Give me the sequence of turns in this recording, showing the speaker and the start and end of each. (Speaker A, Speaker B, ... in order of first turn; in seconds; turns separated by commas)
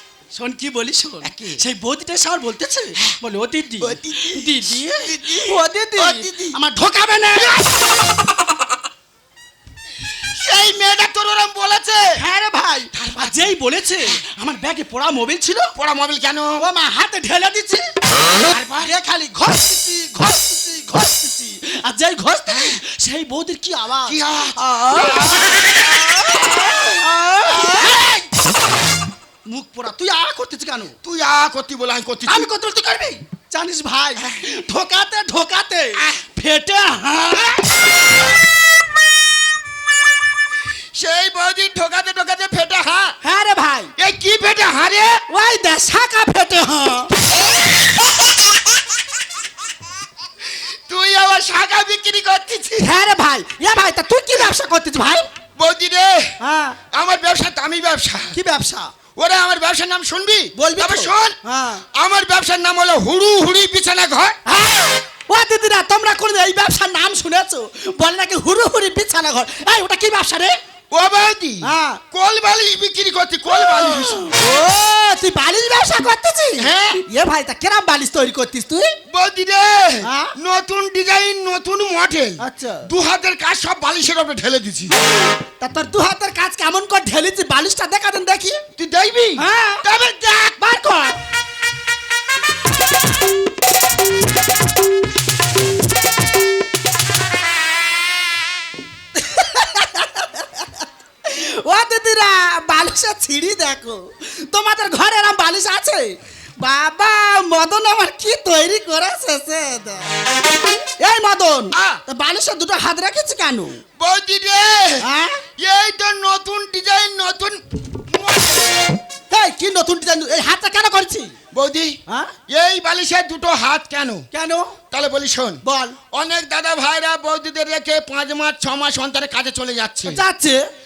Speaker A: 0.3-7.7, Speaker B: 1.2-1.6, Speaker B: 3.8-6.6, Speaker B: 10.4-12.1, Speaker A: 12.2-15.7, Speaker B: 13.0-13.4, Speaker B: 15.8-16.5, Speaker A: 16.6-17.9, Speaker B: 18.3-18.9, Speaker A: 18.8-25.5, Speaker B: 22.5-22.8, Speaker B: 24.1-25.5, Speaker A: 26.1-28.2, Speaker B: 26.3-26.9, Speaker B: 27.5-28.1, Speaker A: 29.4-30.9, Speaker B: 31.0-32.5, Speaker A: 32.3-37.6, Speaker B: 36.0-36.2, Speaker B: 41.0-43.2, Speaker A: 43.2-43.9, Speaker B: 44.0-45.2, Speaker A: 45.3-47.1, Speaker B: 50.9-52.9, Speaker A: 52.8-55.3, Speaker B: 55.6-56.4, Speaker A: 56.4-56.8, Speaker B: 56.9-58.4, Speaker A: 58.3-58.9, Speaker B: 59.2-61.4, Speaker A: 60.6-61.8, Speaker B: 61.9-64.4, Speaker A: 64.5-70.6, Speaker B: 70.9-74.3, Speaker A: 71.6-72.0, Speaker A: 74.0-79.0, Speaker B: 76.6-77.0, Speaker B: 79.1-85.0, Speaker A: 80.0-80.3, Speaker A: 82.4-82.9, Speaker A: 85.6-88.6, Speaker B: 88.8-90.5, Speaker A: 89.4-89.8, Speaker A: 90.5-91.2, Speaker A: 99.2-110.1, Speaker A: 111.0-113.8, Speaker B: 111.7-112.0, Speaker B: 114.0-115.0, Speaker A: 115.0-115.4, Speaker B: 115.6-119.0, Speaker A: 119.3-121.3, Speaker B: 121.5-122.0, Speaker A: 122.1-122.3, Speaker B: 122.5-124.3, Speaker A: 124.3-124.8, Speaker B: 124.9-130.2, Speaker A: 125.7-126.0, Speaker A: 130.1-130.6